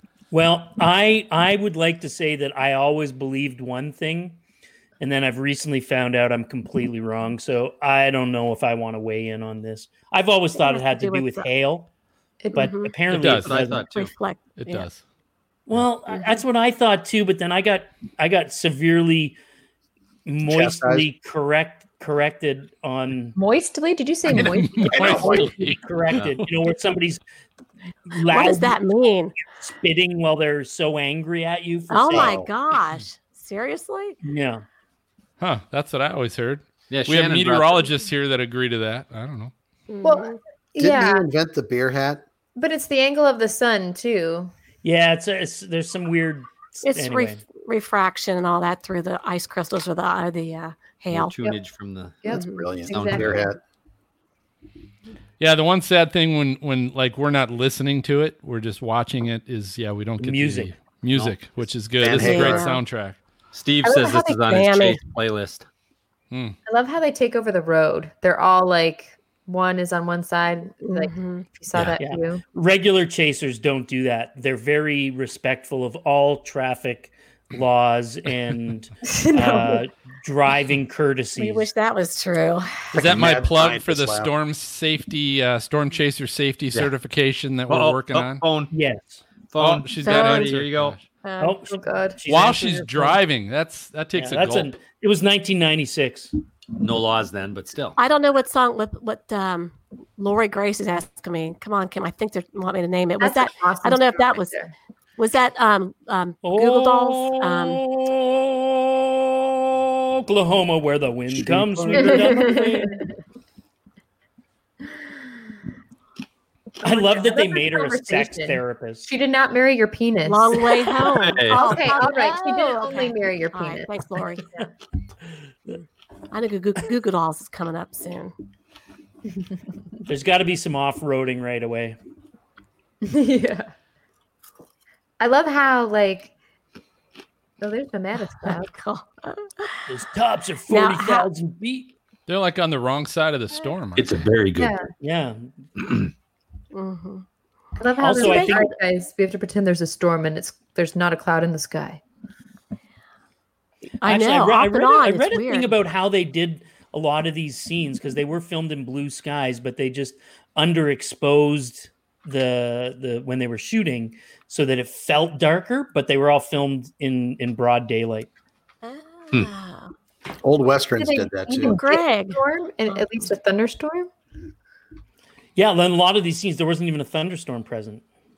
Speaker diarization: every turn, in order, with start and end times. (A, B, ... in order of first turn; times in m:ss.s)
0:00.3-0:04.4 A
0:05.0-0:11.9 A
0:10.6-0:11.5 B
0:12.4-0:12.7 C
0:12.5-0:13.9 A
0:12.6-0:12.9 B
0:13.1-0:13.5 D
0:13.3-0:14.1 E
0:13.9-0:14.9 B
0:14.6-0:15.0 D
0:15.7-0:19.4 A
0:20.3-0:23.4 A
0:20.4-0:21.1 F
0:23.4-0:25.5 C
0:24.3-0:26.5 D
0:24.9-0:27.2 A
0:24.9-0:25.5 F
0:28.1-0:28.8 A
0:28.3-0:29.3 B
0:29.6-0:32.4 A
0:31.9-0:34.2 B
0:32.1-0:32.5 F
0:34.2-0:34.6 A
0:35.4-0:39.5 D
0:36.9-0:37.9 E
0:39.9-0:40.4 B
0:40.0-0:41.2 C
0:40.8-0:42.2 F
0:42.6-0:44.5 C
0:44.8-0:47.4 A
0:46.8-0:51.4 B
0:51.1-0:52.2 E
0:52.2-0:53.4 C
0:52.3-0:53.6 F
0:52.3-0:52.6 B
0:52.9-0:53.5 E
0:55.4-1:03.2 D
1:00.2-1:00.8 A
1:01.1-1:01.4 E
1:02.0-1:02.7 F
1:02.2-1:02.8 B
1:03.5-1:05.7 E
1:03.8-1:04.4 C
1:04.4-1:05.0 B
1:06.3-1:06.6 D
1:06.7-1:12.4 C
1:10.8-1:11.5 B
1:12.0-1:21.7 A
1:19.1-1:19.8 C
1:21.4-1:22.9 B
1:22.9-1:24.3 F
1:22.9-1:28.4 D
1:27.7-1:28.7 E
1:28.7-1:29.2 A
1:29.5-1:31.0 E
1:29.6-1:31.0 D
1:30.0-1:30.5 B
1:31.2-1:31.6 B
1:31.4-1:33.2 A
1:31.7-1:32.2 C
1:32.3-1:34.8 D
1:34.2-1:36.3 A
1:36.8-1:38.0 E
1:38.0-1:44.5 B
1:43.2-1:44.7 C
1:45.2-1:47.8 B
1:46.4-1:53.0 A
1:51.4-1:51.8 E
1:51.9-1:53.1 C
1:56.8-1:59.1 A
1:56.8-2:04.0 C
2:00.3-2:04.5 B
2:01.2-2:01.8 E
2:06.3-2:08.3 B
2:10.1-2:12.0 A
2:13.0-2:13.7 C
2:15.2-2:16.3 C
2:17.6-2:18.7 C
2:18.4-2:19.9 B
2:19.9-2:21.9 A
2:20.7-2:21.3 B
2:22.3-2:24.2 D
2:24.0-2:24.8 E
2:24.6-2:24.9 C
2:25.0-2:25.6 A
2:25.8-2:26.1 E
2:26.7-2:27.2 B
2:27.8-2:32.0 C
2:28.0-2:28.7 A
2:28.2-2:28.6 B
2:34.0-2:35.7 B
2:34.0-2:48.3 A
2:48.8-2:49.9 B
2:50.4-2:51.8 F
2:51.0-2:54.1 C
2:51.6-2:53.0 B
2:55.6-2:58.0 A